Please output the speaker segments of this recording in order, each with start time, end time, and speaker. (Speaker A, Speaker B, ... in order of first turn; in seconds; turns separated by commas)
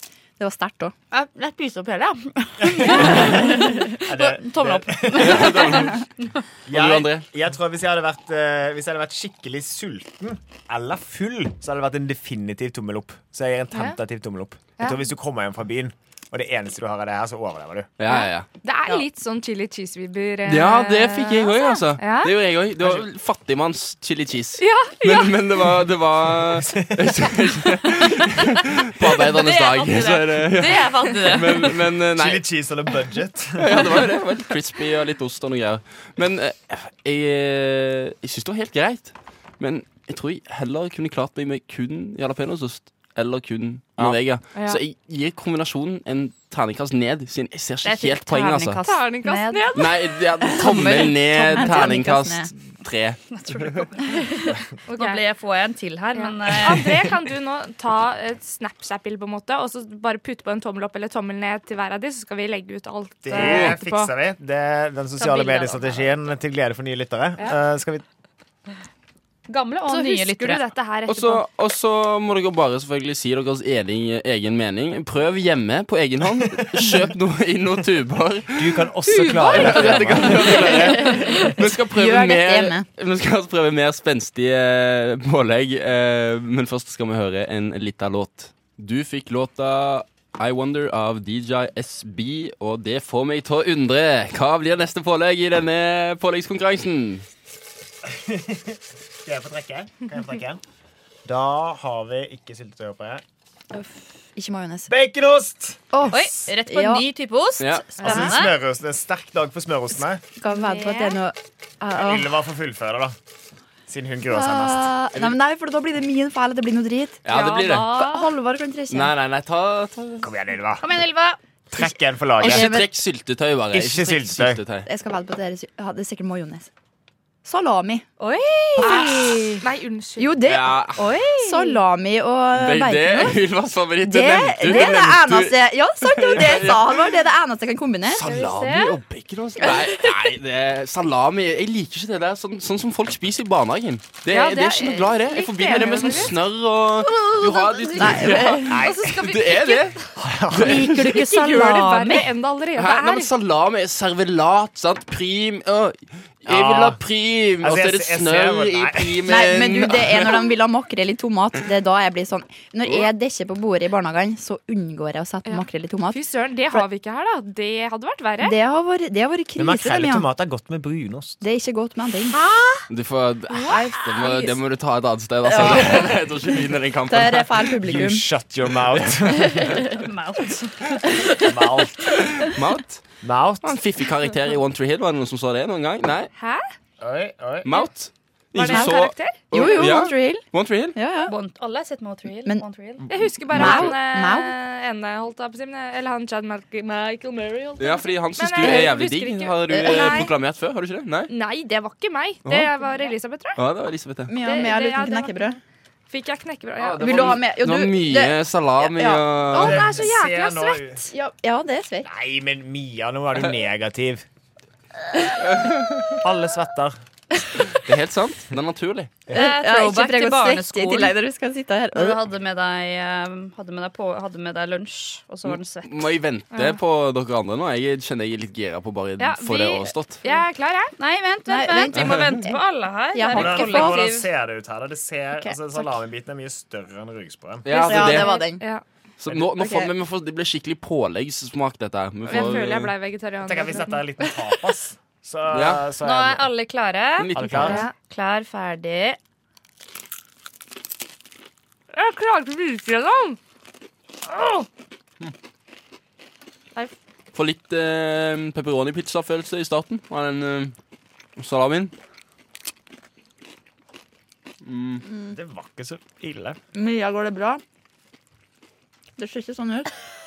Speaker A: 0.4-0.9, Speaker B: 1.1-6.0, Speaker C: 2.6-5.6, Speaker D: 5.2-6.0, Speaker C: 6.7-17.9, Speaker D: 6.7-7.3, Speaker D: 18.0-18.5, Speaker E: 18.1-22.3, Speaker D: 20.4-32.4, Speaker E: 24.6-25.4, Speaker C: 26.6-27.5, Speaker B: 29.2-31.7, Speaker C: 32.1-33.9, Speaker D: 33.6-48.8, Speaker E: 44.5-44.8, Speaker B: 47.8-49.8, Speaker E: 48.8-50.1, Speaker D: 49.7-53.2, Speaker A: 50.5-52.5, Speaker B: 53.3-56.9, Speaker E: 54.9-55.2, Speaker E: 56.1-64.1, Speaker C: 63.2-68.0, Speaker D: 63.3-63.7, Speaker B: 65.2-66.0, Speaker B: 69.5-70.7, Speaker E: 69.8-71.4, Speaker D: 71.1-78.9, Speaker C: 78.5-80.9, Speaker E: 79.2-79.6, Speaker D: 79.4-97.2, Speaker A: 80.6-82.8, Speaker C: 98.0-100.6, Speaker C: 101.2-103.2, Speaker A: 103.7-104.9, Speaker C: 104.9-106.0, Speaker A: 105.9-107.0, Speaker B: 106.1-108.5, Speaker D: 107.6-107.9, Speaker C: 108.0-110.2, Speaker E: 108.0-108.3, Speaker A: 110.4-112.3, Speaker B: 110.7-111.1, Speaker C: 111.9-113.2, Speaker C: 113.9-115.0, Speaker A: 114.3-117.2, Speaker D: 117.2-117.9, Speaker B: 117.3-118.3, Speaker A: 117.9-119.1, Speaker D: 118.9-120.3, Speaker C: 120.2-120.8, Speaker B: 120.8-121.4, Speaker C: 121.7-122.8, Speaker A: 122.4-122.9, Speaker D: 122.4-124.9, Speaker C: 123.7-124.6, Speaker A: 124.8-126.7, Speaker A: 127.4-128.0, Speaker B: 128.2-129.6, Speaker A: 128.8-129.5, Speaker E: 128.8-130.4, Speaker A: 130.2-130.8, Speaker D: 130.4-131.1, Speaker B: 130.9-131.8, Speaker A: 131.4-133.4, Speaker D: 132.5-137.1, Speaker A: 134.0-138.2, Speaker D: 138.1-150.0, Speaker B: 138.3-138.9, Speaker E: 144.3-146.4, Speaker A: 147.2-148.8, Speaker E: 148.6-150.1, Speaker C: 148.7-149.2, Speaker C: 150.2-151.0, Speaker D: 150.5-151.2, Speaker B: 150.5-152.3, Speaker E: 151.1-153.3, Speaker D: 152.8-160.5, Speaker C: 156.4-157.0, Speaker C: 157.6-159.3, Speaker A: 159.2-166.8, Speaker E: 165.4-168.6, Speaker A: 168.4-170.2, Speaker C: 169.6-171.4, Speaker A: 171.4-172.8, Speaker D: 172.9-177.8, Speaker E: 173.6-173.9, Speaker A: 175.4-176.1, Speaker A: 177.1-178.2, Speaker C: 177.8-179.9, Speaker B: 179.9-181.4, Speaker C: 181.4-182.2, Speaker D: 182.3-183.0, Speaker C: 183.2-183.8, Speaker D: 183.6-186.3, Speaker E: 186.4-186.7, Speaker C: 187.0-187.7, Speaker D: 187.6-191.0, Speaker E: 188.5-189.8, Speaker A: 188.7-189.0, Speaker A: 189.5-190.4, Speaker A: 190.9-191.3, Speaker B: 191.3-193.0, Speaker E: 193.1-200.3, Speaker A: 193.5-194.5, Speaker D: 193.5-193.9, Speaker D: 197.8-201.3, Speaker A: 199.7-200.2, Speaker E: 201.3-203.6, Speaker D: 202.4-202.7, Speaker D: 203.6-204.3, Speaker A: 204.3-205.6, Speaker E: 204.4-205.6, Speaker E: 206.1-207.1, Speaker D: 206.8-209.9, Speaker A: 207.0-209.6, Speaker E: 209.5-211.1, Speaker C: 209.5-211.1, Speaker A: 211.1-212.1, Speaker C: 212.0-214.2, Speaker C: 216.1-217.0, Speaker D: 217.7-219.1, Speaker A: 219.3-222.2, Speaker B: 219.3-221.1, Speaker B: 221.9-226.1, Speaker D: 225.4-230.2, Speaker E: 226.5-226.8, Speaker E: 229.2-230.9, Speaker B: 231.0-234.3, Speaker A: 231.5-232.6, Speaker D: 231.9-232.4, Speaker A: 233.1-234.0, Speaker C: 233.3-237.7, Speaker A: 235.4-235.8, Speaker D: 237.6-238.4, Speaker A: 237.7-238.6, Speaker E: 237.8-238.8, Speaker D: 239.2-242.9, Speaker A: 239.6-239.9, Speaker E: 242.2-244.1, Speaker C: 243.4-246.5, Speaker D: 245.5-245.8, Speaker B: 246.0-249.2, Speaker D: 247.2-247.8, Speaker C: 247.3-247.8, Speaker E: 247.6-247.9, Speaker E: 251.9-253.4, Speaker E: 254.2-254.7, Speaker D: 257.3-260.7, Speaker D: 261.4-261.9, Speaker D: 264.6-265.0, Speaker A: 265.1-265.3, Speaker C: 265.3-266.6, Speaker A: 266.7-267.6, Speaker A: 269.2-269.9